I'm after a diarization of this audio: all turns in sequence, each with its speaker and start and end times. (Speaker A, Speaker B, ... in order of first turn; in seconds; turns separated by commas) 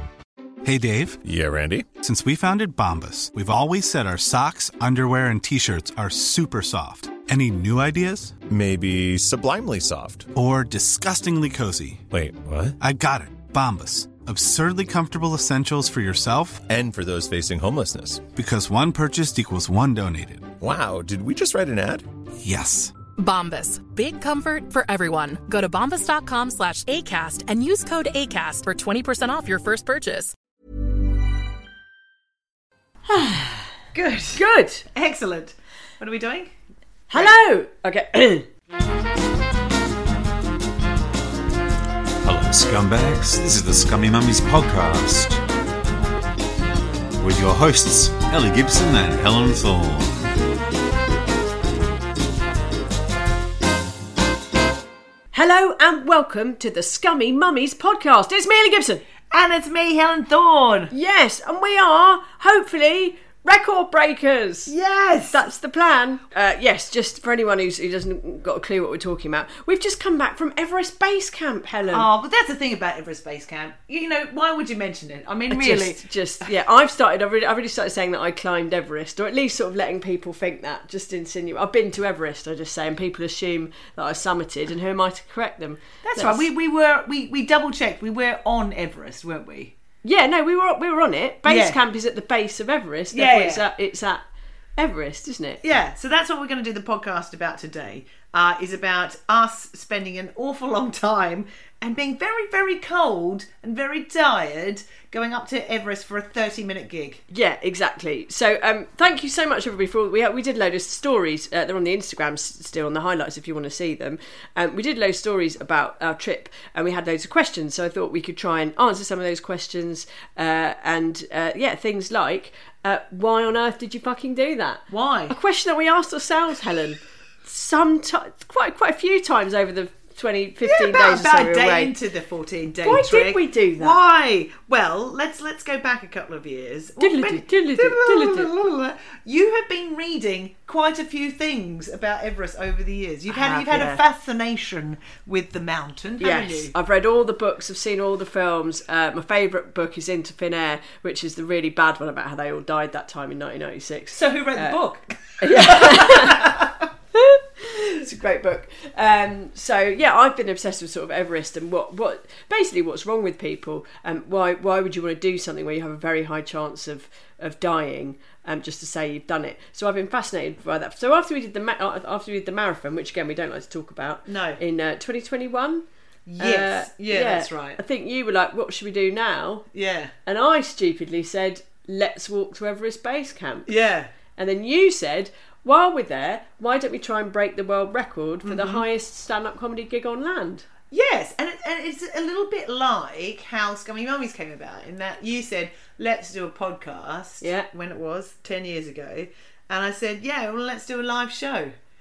Speaker A: 0.6-1.2, Speaker B: 1.2-1.9, Speaker A: 2.0-8.3, Speaker B: 8.5-10.3, Speaker A: 10.3-12.0, Speaker B: 12.1-12.8, Speaker A: 12.8-16.6, Speaker B: 16.7-18.3, Speaker A: 18.3-20.5, Speaker B: 20.6-22.0, Speaker A: 22.4-22.9, Speaker C: 23.2-30.3, Speaker D: 33.1-33.7, Speaker E: 33.9-36.5, Speaker D: 34.4-34.8, Speaker D: 37.1-38.5, Speaker F: 42.2-45.4, Speaker F: 47.2-50.2, Speaker D: 55.3-59.0, Speaker E: 59.3-60.9, Speaker D: 60.9-64.7, Speaker E: 64.7-65.4, Speaker D: 65.3-72.1, Speaker E: 71.9-76.5, Speaker D: 75.5-86.4, Speaker E: 86.0-89.7, Speaker D: 90.0-94.2, Speaker E: 91.4-91.8, Speaker E: 93.1-93.6, Speaker D: 94.8-95.6, Speaker E: 95.6-107.2, Speaker D: 107.3-131.9, Speaker E: 124.9-125.3, Speaker E: 130.6-146.7, Speaker D: 132.8-134.0, Speaker D: 137.0-138.5, Speaker D: 143.3-144.0, Speaker D: 146.2-154.8, Speaker E: 154.1-156.8, Speaker D: 155.4-156.6, Speaker D: 157.1-175.8, Speaker E: 174.2-174.6, Speaker E: 176.3-177.8, Speaker D: 176.4-179.7, Speaker E: 179.7-180.1, Speaker D: 180.2-183.7, Speaker E: 183.7-184.1, Speaker D: 184.3-190.7, Speaker E: 188.4-188.8, Speaker E: 190.9-201.7, Speaker D: 197.4-197.7